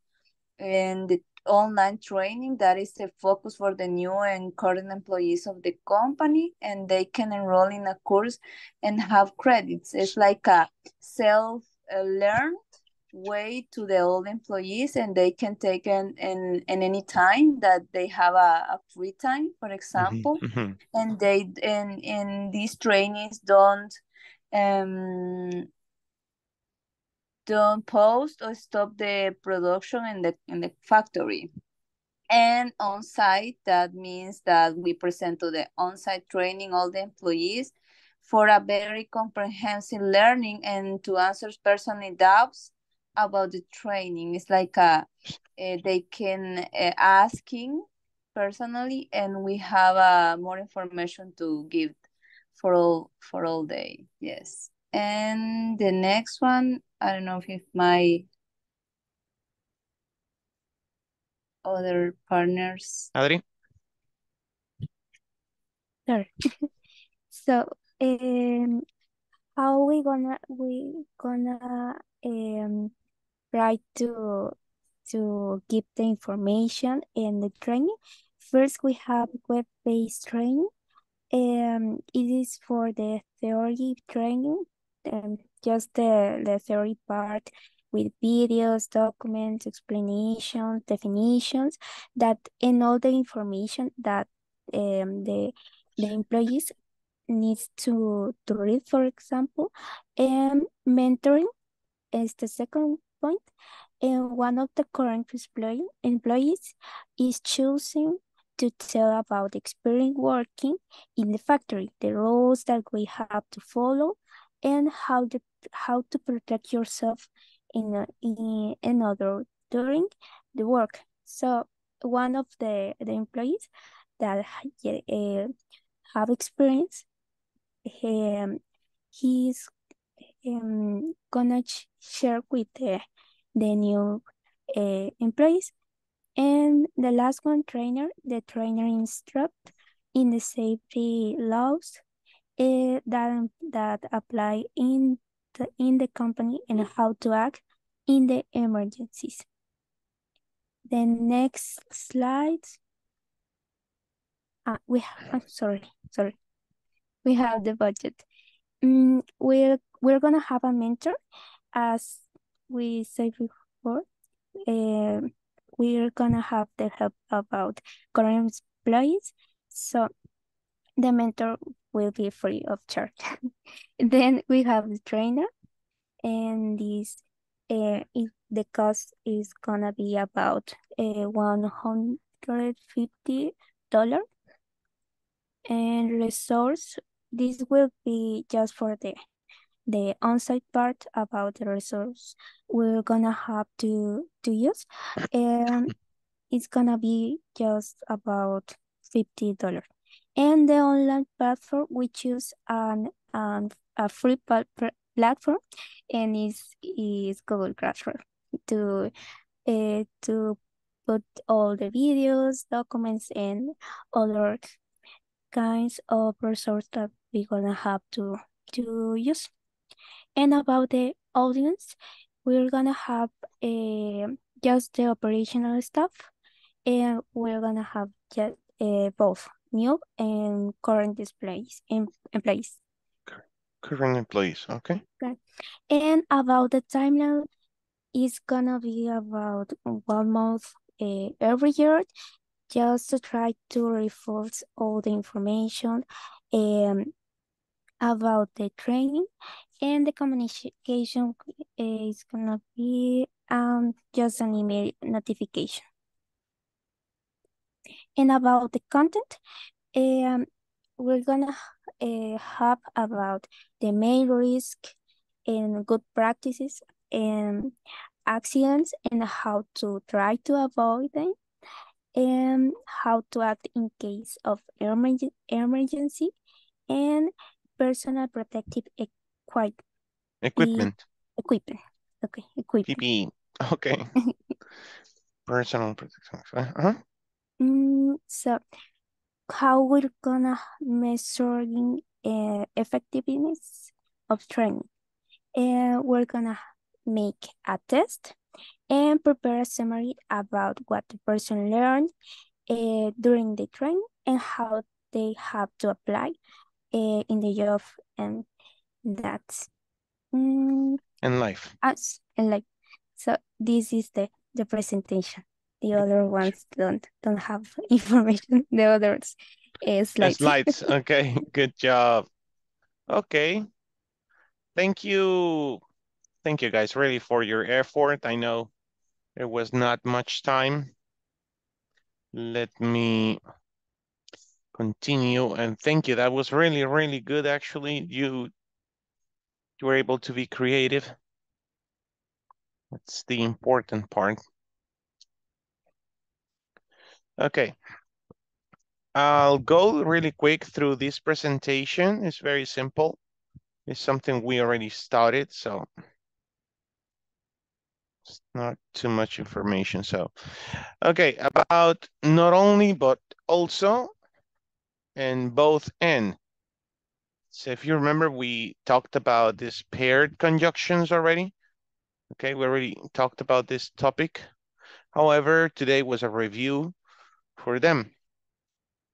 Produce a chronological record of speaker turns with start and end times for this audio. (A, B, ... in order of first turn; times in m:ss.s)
0:00.6-0:12.6 A
0:13.1-0:20.4 A
0:20.0-0:20.8 B
0:20.9-0:24.0 A
0:24.5-0:25.6 A
0:27.5-0:31.5 A
0:32.3-0:37.7 A
0:38.2-0:51.9 A
0:52.6-0:58.2 A
1:01.6-1:03.1 A
1:03.1-1:03.4 B
1:07.3-1:08.8 C
1:09.6-1:12.9 C
1:13.5-1:20.7 C
1:21.3-1:36.7 C
1:37.3-1:41.5 C
1:42.1-1:43.4 C
1:44.0-2:05.5 C
2:06.1-2:07.0 C
2:07.8-2:08.6 C
2:09.1-2:09.7 C
2:10.4-2:13.0 C
2:13.5-2:14.2 C
2:14.7-2:15.7 C
2:16.4-2:19.6 C
2:20.1-2:22.0 C
2:22.6-2:29.4 C
2:30.9-2:32.8 C
2:34.7-2:36.3 C
2:37.2-2:38.2 C
2:38.8-2:41.2 C
2:41.7-2:44.0 C
2:44.7-2:50.1 C
2:51.0-2:53.1 C
2:54.0-2:55.5 C
2:56.2-3:04.2 C
3:05.7-3:09.2 C
3:09.9-3:15.9 C
3:16.5-3:19.8 C
3:20.4-3:25.6 C
3:26.1-3:29.1 C
3:29.6-3:34.6 C
3:35.5-3:39.5 C
3:40.4-3:46.3 C
3:46.8-3:52.8 C
3:53.3-3:55.0 B
3:55.9-3:57.5 C
3:58.1-4:02.1 C
4:02.7-4:07.1 C
4:08.0-4:09.3 C
4:09.8-4:15.8 C
4:18.2-4:19.4 C
4:19.9-4:20.4 C
4:21.0-4:24.9 C
4:25.5-4:27.7 C
4:28.3-4:31.4 C
4:32.1-4:36.3 C
4:36.9-4:39.8 C
4:40.4-4:40.9 B
4:40.6-4:43.0 C
4:42.9-4:44.1 B
4:45.5-4:47.0 B
4:47.6-4:48.6 C
4:49.5-4:54.9 C
4:55.6-4:58.4 C
4:58.9-5:02.1 C
5:02.7-5:06.4 C
5:06.9-5:08.4 C
5:09.0-5:09.7 C
5:10.3-5:11.0 C
5:11.2-5:11.7 B
5:11.8-5:12.6 C
5:13.2-5:20.7 C
5:20.2-5:22.2 B
5:23.1-5:23.6 B
5:24.8-5:25.8 B
5:26.4-5:28.7 B
5:29.4-5:30.9 B
5:32.3-5:33.4 B
5:34.7-5:38.5 B
5:39.8-5:41.1 B
5:42.9-5:44.4 B
5:47.4-5:47.7 B
5:49.1-5:53.2 B
5:53.9-5:55.9 B
5:58.3-6:04.1 B
6:05.2-6:06.4 B
6:07.5-6:11.5 B
6:12.3-6:14.5 B
6:15.1-6:16.9 B
6:17.6-6:18.1 B